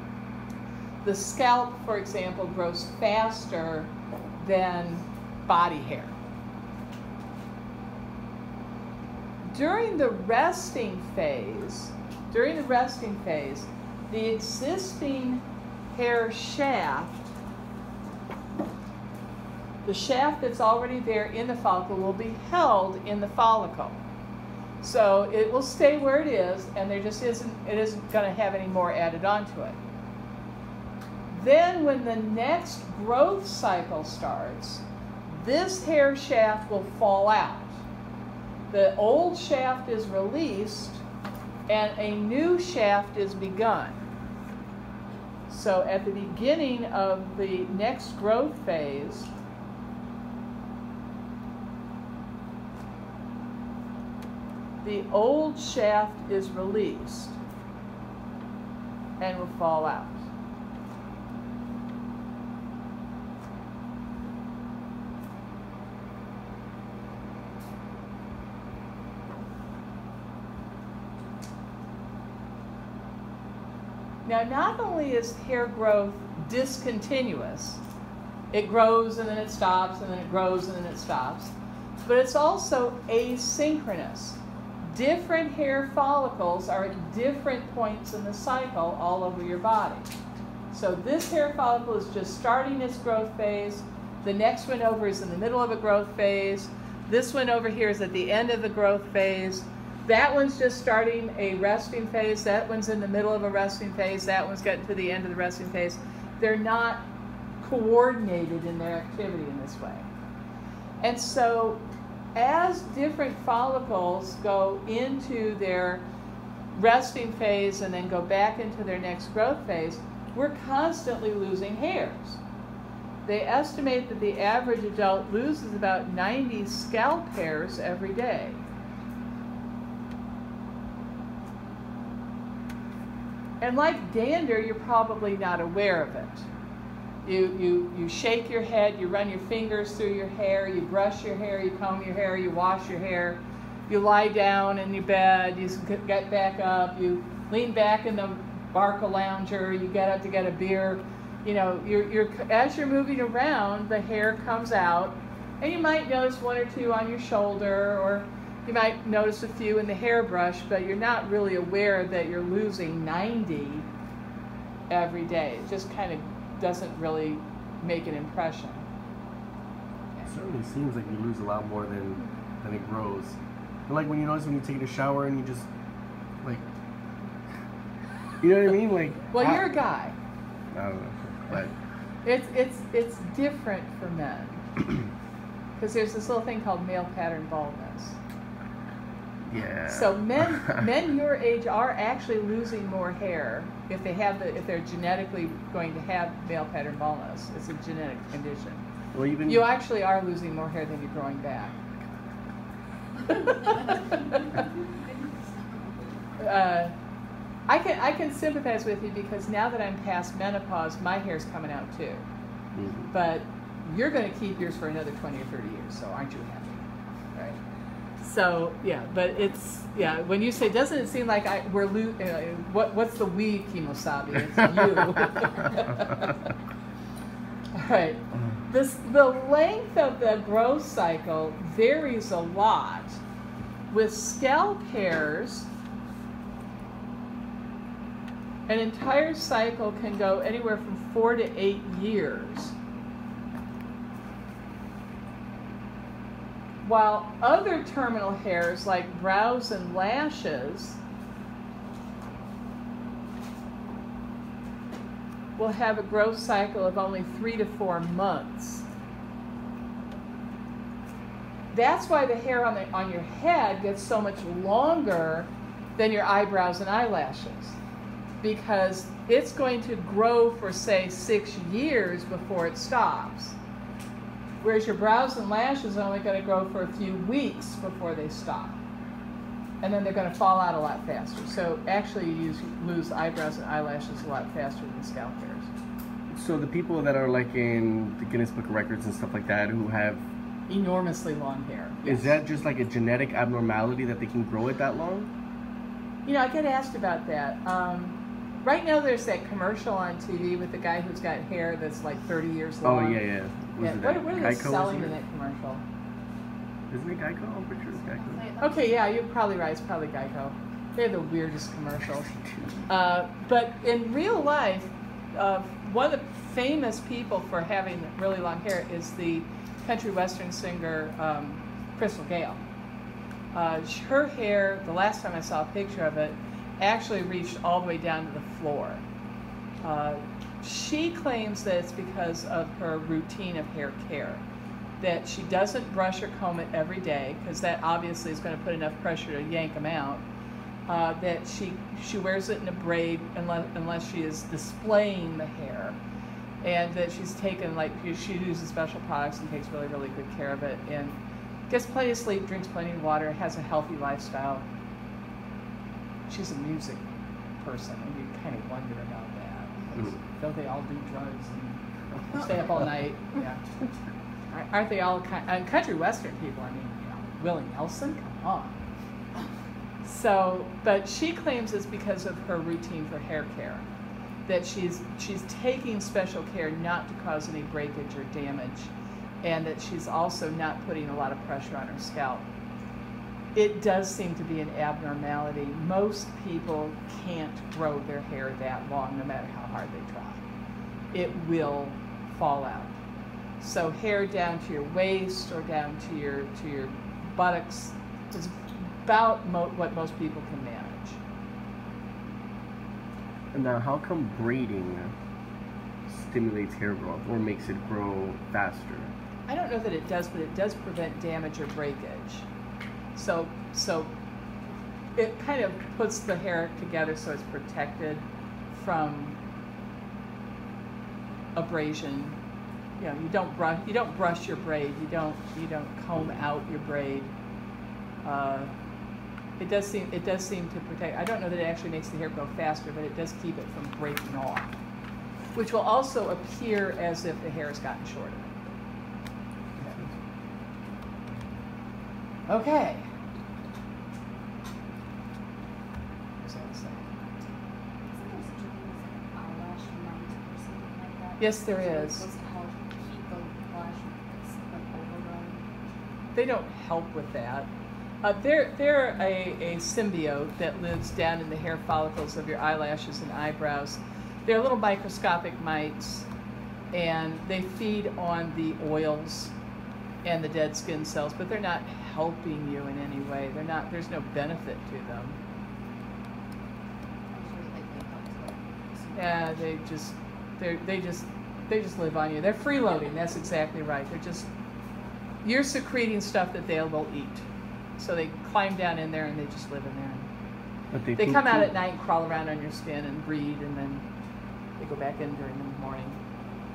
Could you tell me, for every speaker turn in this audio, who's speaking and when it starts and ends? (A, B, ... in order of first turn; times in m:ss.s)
0:01.0-0:06.1 A
0:09.4-0:17.3 A
0:19.8-0:24.0 A
0:24.8-0:29.8 A
0:31.3-0:37.8 A
0:38.7-0:41.0 A
0:41.7-0:44.0 A
0:45.5-0:49.3 A
0:54.8-0:57.4 A
0:59.2-1:00.2 A
1:14.2-1:17.8 A
1:18.5-1:21.5 A
1:22.0-1:30.1 A
1:30.7-1:47.0 A
1:47.6-1:50.1 A
1:51.0-1:51.8 A
1:52.3-1:56.0 A
1:56.7-2:02.4 A
2:03.2-2:08.6 A
2:13.6-2:16.5 A
2:17.2-2:43.9 A
2:44.9-2:48.8 A
2:50.2-2:55.7 B
2:58.4-2:59.6 B
2:59.3-3:00.1 A
3:00.7-3:01.7 B
3:02.2-3:04.6 A
3:05.8-3:08.2 A
3:09.5-3:10.8 B
3:09.9-3:18.8 A
3:19.1-3:19.7 B
3:19.4-3:21.7 A
3:23.3-3:24.4 A
3:26.4-3:26.9 A
3:27.7-3:32.2 A
3:32.7-3:33.1 B
3:33.1-3:37.6 A
3:38.2-3:46.4 A
3:47.7-3:53.2 A
3:53.9-3:55.7 A
3:58.7-4:02.8 A
4:06.8-4:11.0 A
4:15.6-4:18.8 A
4:21.7-4:27.8 A
4:28.4-4:33.6 A
4:34.6-4:38.8 A
4:39.8-4:45.7 A
4:46.3-4:50.2 B
4:50.7-4:52.4 A
4:52.0-4:55.3 B
4:56.2-5:03.2 A
5:02.8-5:05.1 B
5:03.8-5:05.8 A
5:06.9-5:08.4 B
5:07.9-5:09.0 C
5:08.6-5:12.3 A
5:12.3-5:12.8 B
5:12.9-5:22.6 A
5:23.5-5:29.0 A
5:29.8-5:34.4 A
5:35.0-5:40.2 A
5:40.9-5:46.0 A
5:46.6-5:51.2 A
5:51.7-5:54.6 A
5:56.3-6:03.6 A
6:04.5-6:08.8 A
6:10.0-6:13.9 A
6:14.4-6:22.4 A
6:23.5-6:30.4 A
6:31.1-6:33.0 A
6:33.6-6:41.2 A
6:43.5-6:45.1 B
6:46.1-6:49.1 B
6:49.5-6:52.5 A
6:53.2-6:54.1 A
6:55.2-6:59.4 A
7:01.6-7:02.4 A
7:03.0-7:07.3 A
7:08.2-7:08.7 A
7:09.6-7:14.8 A
7:15.5-7:18.5 A
7:22.5-7:23.1 A
7:26.4-7:27.2 A
7:28.0-7:35.7 C
7:31.4-7:32.2 A
7:36.3-7:37.7 A
7:38.2-7:46.3 A
7:46.9-7:49.5 A
7:50.2-7:55.4 A
7:57.3-7:59.5 C
7:59.1-8:04.5 A
8:05.4-8:07.4 A
8:08.0-8:10.3 A
8:10.9-8:11.7 B
8:11.2-8:14.0 A
8:14.8-8:16.2 A